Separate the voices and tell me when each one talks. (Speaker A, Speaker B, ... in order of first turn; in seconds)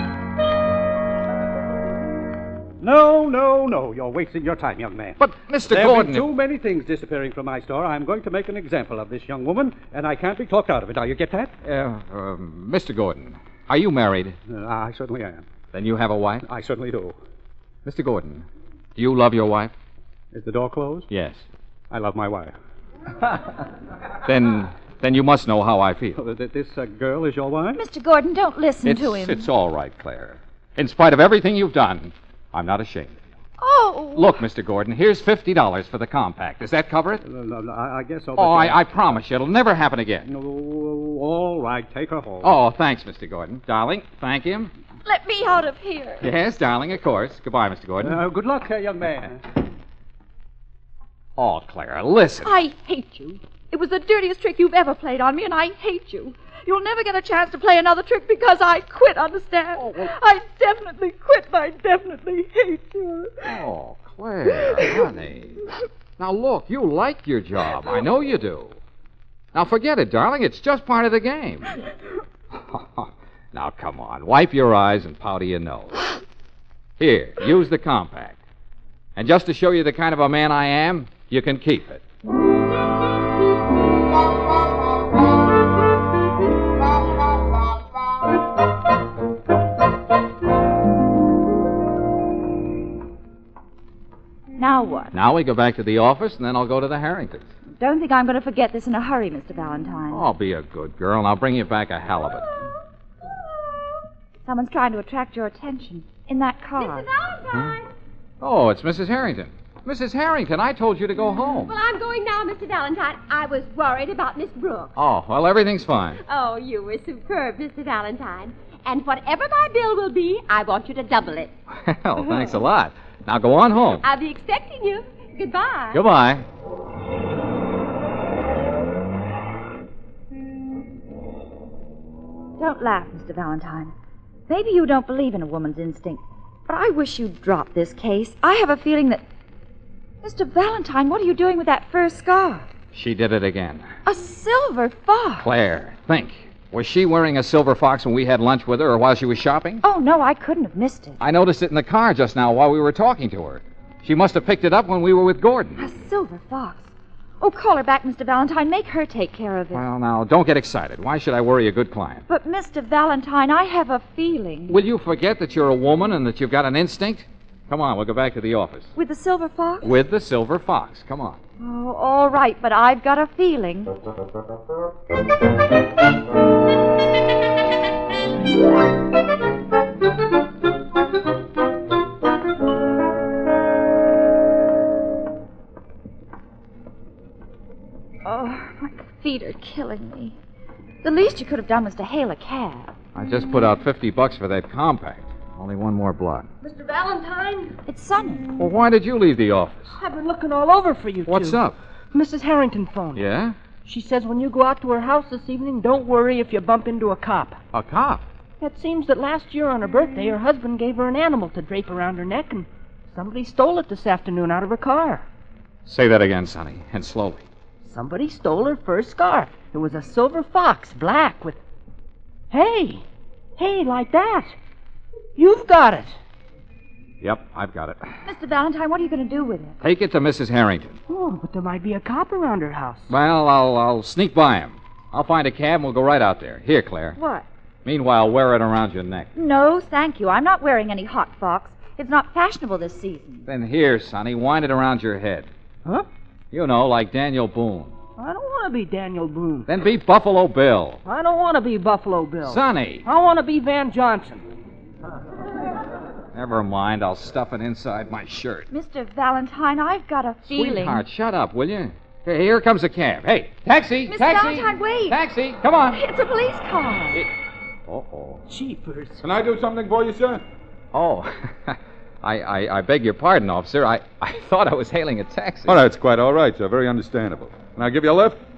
Speaker A: 2.8-11.5, 14.5-15.4, 16.4-17.2, 20.3-21.1, 21.9-22.6, 26.1-27.8, 37.2-38.8, 40.2-42.5, 48.0-49.3
Speaker B: 5.2-6.3, 11.6-14.4, 15.7-16.5, 17.9-19.7, 21.1-21.4, 24.2-26.2, 28.8-33.2, 34.1-37.2, 38.4-40.3, 42.4-44.7, 46.2-48.2, 51.4-52.5, 59.8-60.1, 63.5-65.6, 66.2-68.8, 69.5-71.7, 72.5-76.1, 77.0-78.4, 79.2-82.0, 95.1-97.5, 100.1-102.5, 107.5-107.8, 108.4-111.7, 115.0-116.2, 121.8-124.0, 125.9-126.5, 142.9-143.9, 145.4-149.8, 151.2-155.8, 159.7-162.2, 164.7-168.9, 169.8-171.4, 193.2-196.5, 198.6-199.9, 201.3-201.8, 203.2-203.6, 207.7-208.2, 215.9-217.5, 227.2-228.1, 229.8-231.0, 233.1-237.2, 237.8-239.3, 243.5-245.5, 246.5-247.9, 249.7-251.0, 252.4-253.1, 256.3-258.7, 260.5-266.0, 267.9-268.4, 270.9-275.8
Speaker C: 27.8-29.5, 33.6-34.4, 45.0-46.3, 52.4-63.6, 64.5-65.0, 94.6-95.1, 97.8-100.3, 104.5-107.1, 132.6-133.9, 134.5-139.2, 140.2-142.7, 144.1-145.5, 149.8-151.2, 155.8-159.8, 162.3-164.8, 169.0-169.9, 171.6-173.9, 188.2-190.4, 191.0-192.9, 197.9-198.5, 228.2-229.8, 237.2-237.4, 239.3-243.4, 258.7-261.0, 264.1-265.2, 265.9-267.2
Speaker D: 102.2-102.7, 103.4-103.8, 106.8-107.9, 111.7-115.0, 116.2-121.5, 122.2-122.5, 124.0-126.0
Speaker E: 196.6-197.8, 199.9-203.3, 203.8-207.6, 208.6-215.2, 217.8-221.6, 222.5-223.1, 223.6-224.6, 225.4-226.2, 231.1-233.1, 248.2-249.7, 251.1-254.5, 268.5-269.2
Speaker F: 269.2-270.4, 275.7-278.4